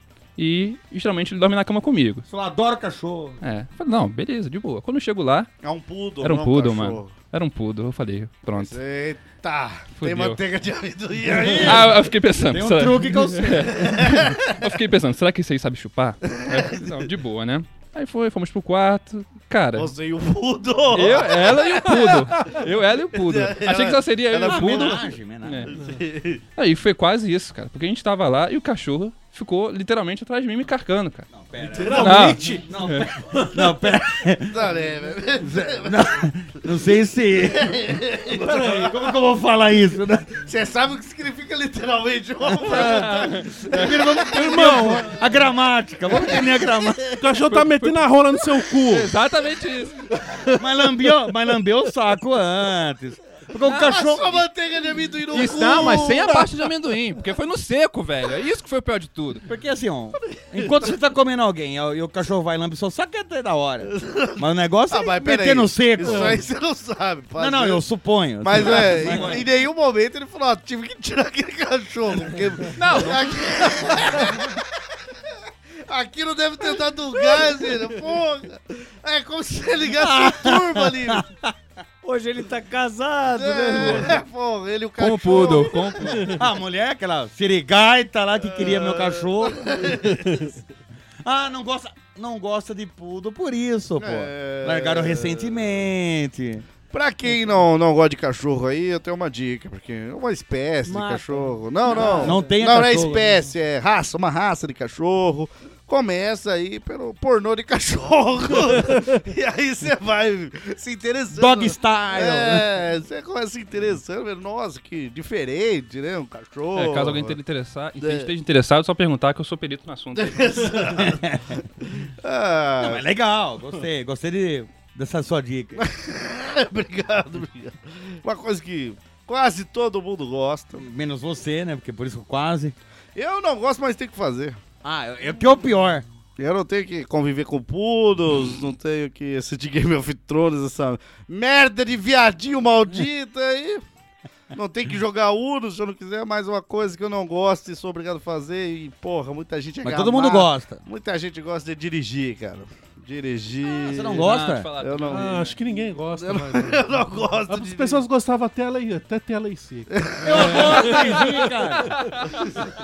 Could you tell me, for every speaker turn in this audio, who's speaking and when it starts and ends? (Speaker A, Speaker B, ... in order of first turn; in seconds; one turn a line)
Speaker A: 0.4-2.2
Speaker B: 2.3-3.4
Speaker A: 3.4-5.5
Speaker C: 5.6-7.1
Speaker A: 6.2-8.8
Speaker C: 8.5-12.0
Speaker A: 10.0-10.4
Speaker A: 11.6-19.9
Speaker B: 12.5-13.8
Speaker C: 13.7-14.6
Speaker C: 16.3-16.8
Speaker C: 19.8-22.5
Speaker A: 20.9-25.7
Speaker D: 22.0-22.6
Speaker C: 23.1-25.1
Speaker B: 24.4-25.7
Speaker C: 25.7-26.4
Speaker D: 25.7-26.0
Speaker A: 26.6-31.3
Speaker B: 31.3-34.6
Speaker D: 31.6-32.7
Speaker A: 31.9-33.1
Speaker D: 33.4-33.7
Speaker C: 34.5-36.2
Speaker B: 35.4-37.7
Speaker C: 37.4-39.1
Speaker B: 38.4-40.4
Speaker D: 38.5-38.8
Speaker C: 40.4-44.7
Speaker A: 42.6-43.9
Speaker B: 42.7-43.1
Speaker B: 43.7-47.1
Speaker D: 44.3-45.3
Speaker C: 46.1-47.4
Speaker D: 47.2-49.1
Speaker A: 47.5-47.9
Speaker A: 48.9-50.1
Speaker D: 50.2-50.6
Speaker B: 50.6-54.4
Speaker A: 53.6-53.9
Speaker C: 53.7-56.5
Speaker A: 55.3-59.4
Speaker B: 59.5-66.4
Speaker C: 60.2-60.6
Speaker C: 63.8-67.8
Speaker D: 66.0-66.4
Speaker B: 67.4-69.5
Speaker C: 68.4-74.6
Speaker A: 72.8-73.7
Speaker C: 75.9-81.3
Speaker B: 80.0-81.5
Speaker E: 82.0-84.2
Speaker C: 83.3-86.4
Speaker A: 85.0-86.4
Speaker B: 86.2-89.7
Speaker C: 88.5-90.5
Speaker B: 91.2-96.7
Speaker C: 94.0-95.9
Speaker C: 96.9-117.4
Speaker E: 100.9-102.6
Speaker B: 102.0-103.3
Speaker B: 111.3-112.7
Speaker A: 116.8-120.7
Speaker C: 118.0-118.3
Speaker C: 120.2-121.3
Speaker B: 120.9-121.6
Speaker C: 121.8-123.0
Speaker B: 122.8-125.8
Speaker C: 125.8-130.8
Speaker B: 130.8-132.8
Speaker C: 133.2-134.6
Speaker B: 134.8-136.0
Speaker C: 136.4-143.8
Speaker C: 144.5-155.5
Speaker B: 149.8-150.8
Speaker B: 153.8-154.7
Speaker A: 154.2-155.6
Speaker D: 155.1-161.5
Speaker C: 156.2-158.0
Speaker C: 159.9-161.1
Speaker B: 160.2-162.0
Speaker A: 161.8-162.6